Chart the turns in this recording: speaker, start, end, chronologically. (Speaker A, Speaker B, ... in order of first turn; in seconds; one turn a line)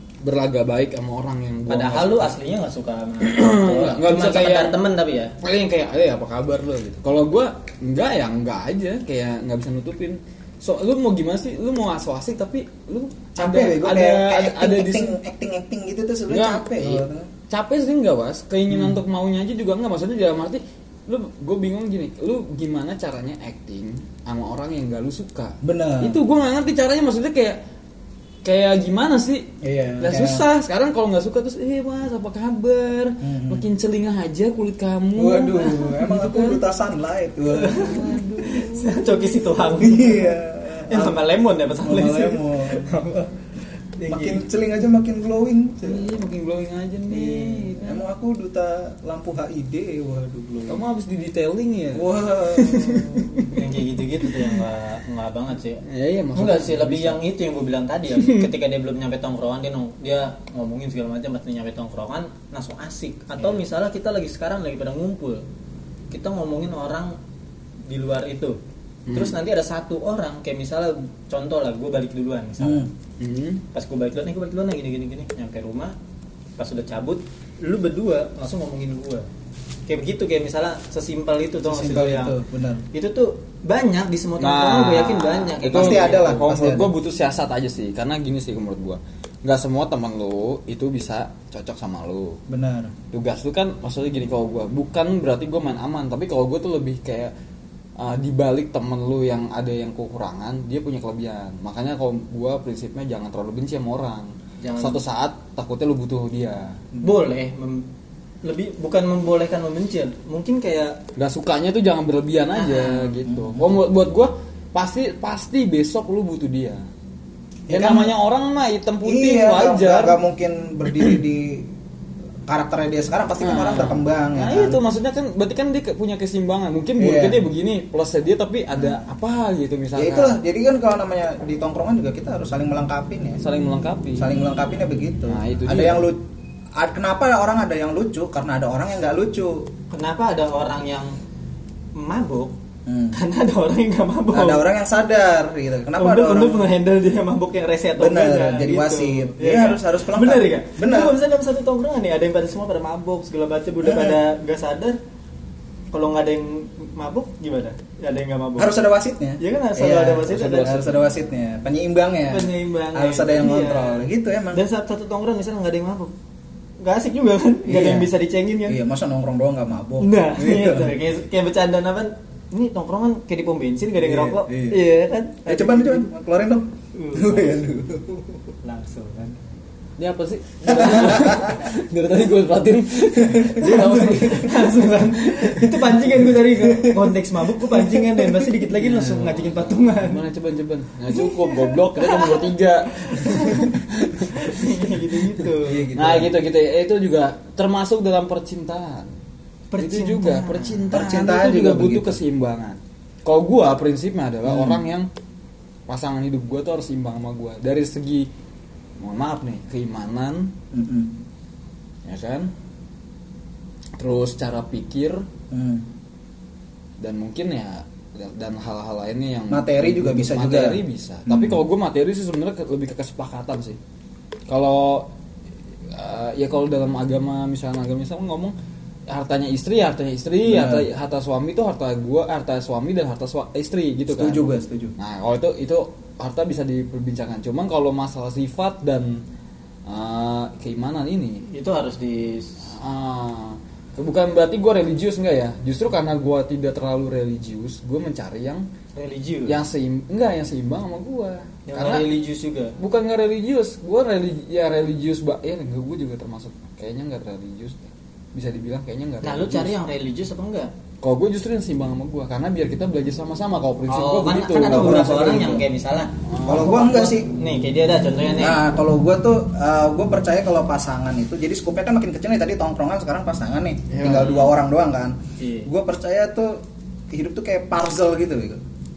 Speaker A: 0.2-2.4
Speaker B: 1.7-5.4
Speaker A: 3.2-4.8
Speaker A: 5.4-15.2
Speaker C: 13.4-17.3
Speaker A: 16.3-27.6
Speaker C: 18.7-19.0
Speaker C: 25.6-26.2
Speaker A: 28.4-29.5
Speaker C: 29.6-30.4
Speaker A: 30.0-36.6
Speaker C: 33.2-33.7
Speaker C: 35.2-38.2
Speaker B: 37.5-43.4
Speaker A: 37.7-39.4
Speaker C: 39.8-41.2
Speaker C: 41.8-43.0
Speaker B: 44.0-44.5
Speaker C: 44.1-46.1
Speaker A: 45.8-48.1
Speaker C: 47.1-50.8
Speaker A: 50.7-53.6
Speaker C: 51.9-53.4
Speaker B: 53.4-55.8
Speaker A: 55.8-57.2
Speaker B: 56.4-65.4
Speaker A: 58.2-58.5
Speaker B: 66.1-67.2
Speaker B: 67.9-68.6
Speaker A: 69.1-69.4
Speaker B: 69.1-72.9
Speaker C: 72.6-72.9
Speaker A: 73.2-73.6
Speaker B: 73.7-75.9
Speaker B: 76.6-79.3
Speaker B: 79.9-82.4
Speaker C: 81.7-82.8
Speaker B: 82.9-86.3
Speaker A: 84.4-92.4
Speaker C: 85.7-86.9
Speaker C: 92.5-92.9
Speaker A: 93.1-97.3
Speaker A: 98.0-106.8
Speaker B: 104.6-105.0
Speaker B: 107.0-107.9
Speaker B: 108.4-111.0
Speaker A: 111.2-116.9
Speaker B: 112.5-113.2
Speaker C: 113.3-113.7
Speaker C: 117.7-118.2
Speaker A: 117.7-120.2
Speaker C: 119.0-121.7
Speaker C: 122.5-124.8
Speaker A: 123.4-130.4
Speaker C: 127.0-127.4
Speaker C: 130.0-133.4
Speaker A: 133.4-134.3
Speaker C: 134.2-136.2
Speaker A: 135.3-136.1
Speaker C: 136.8-139.7
Speaker B: 139.9-141.2
Speaker B: 142.0-142.5
Speaker C: 142.9-143.2
Speaker B: 143.1-144.6
Speaker C: 144.3-146.7
Speaker B: 146.0-155.0
Speaker C: 148.0-151.2
Speaker C: 153.8-154.2
Speaker B: 155.9-158.7
Speaker C: 158.6-164.6
Speaker B: 159.4-160.7
Speaker A: 160.2-161.2
Speaker B: 162.3-166.1
Speaker B: 166.8-168.8
Speaker C: 167.7-168.1
Speaker C: 168.7-170.9
Speaker B: 170.0-176.1
Speaker C: 174.0-174.8
Speaker C: 175.5-178.2
Speaker B: 176.9-177.6
Speaker B: 178.6-179.4
Speaker A: 180.0-184.7
Speaker C: 180.7-181.6
Speaker B: 180.7-181.4
Speaker C: 183.3-184.4
Speaker B: 183.4-190.2
Speaker C: 186.4-187.1
Speaker C: 187.8-188.3
Speaker A: 188.7-194.6
Speaker B: 191.1-195.9
Speaker C: 195.6-196.3
Speaker A: 195.9-199.1
Speaker B: 199.7-201.1
Speaker A: 199.8-205.1
Speaker C: 200.9-202.2
Speaker C: 204.4-204.8
Speaker A: 205.9-208.3
Speaker A: 209.0-210.6
Speaker C: 210.7-211.2
Speaker A: 212.1-212.5
Speaker A: 214.0-215.3
Speaker C: 215.5-215.9
Speaker A: 217.0-223.8
Speaker C: 219.5-221.6
Speaker A: 224.5-225.1
Speaker A: 225.9-228.6
Speaker A: 229.1-234.5
Speaker C: 230.4-230.9
Speaker C: 234.1-234.9
Speaker A: 235.0-239.2
Speaker A: 239.9-241.5
Speaker B: 241.5-242.6
Speaker A: 242.7-248.7
Speaker B: 248.9-249.6
Speaker A: 249.5-252.1
Speaker B: 251.7-252.7
Speaker A: 252.8-259.7
Speaker B: 259.2-260.7
Speaker A: 261.0-265.1
Speaker B: 263.9-268.6
Speaker C: 264.6-265.6
Speaker A: 266.3-266.8
Speaker C: 266.4-267.3
Speaker C: 268.4-276.6
Speaker A: 273.9-274.5
Speaker B: 275.4-275.7
Speaker C: 277.1-278.6